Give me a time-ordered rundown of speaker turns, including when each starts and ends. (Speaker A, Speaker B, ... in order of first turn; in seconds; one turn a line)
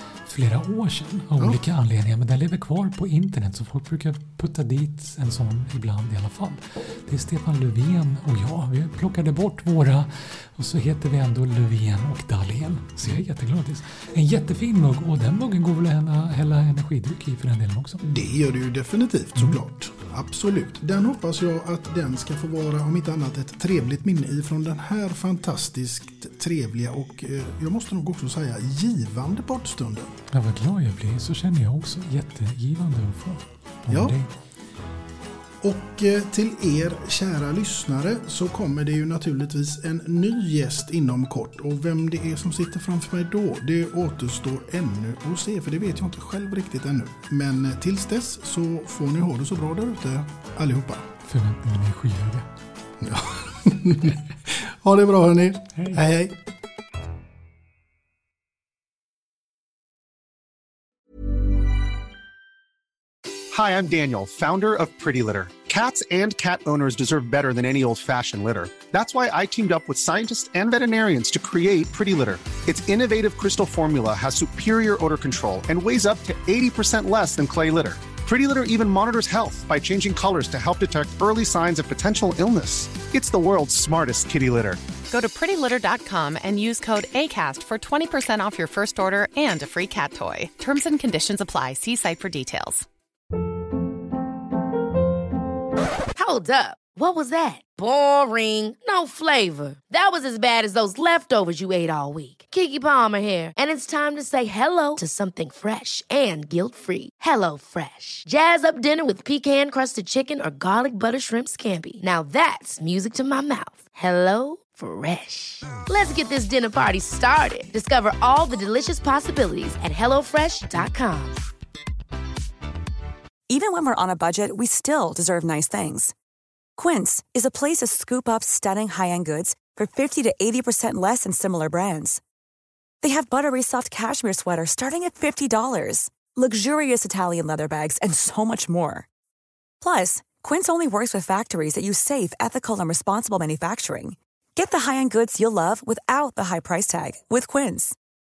Speaker A: 0.2-18.0
Speaker B: 18.0-30.1
Speaker A: 30.3-34.3
Speaker B: 33.9-34.2
Speaker B: 35.6-51.1
Speaker A: 51.2-52.5
Speaker B: 53.0-56.4
Speaker A: 55.8-56.0
Speaker C: 63.5-84.8
Speaker D: 85.1-92.8
Speaker E: 96.2-121.4
Speaker F: 123.5-126.1
Speaker F: 126.8-132.2
Speaker F: 133.0-139.1
Speaker F: 139.8-147.9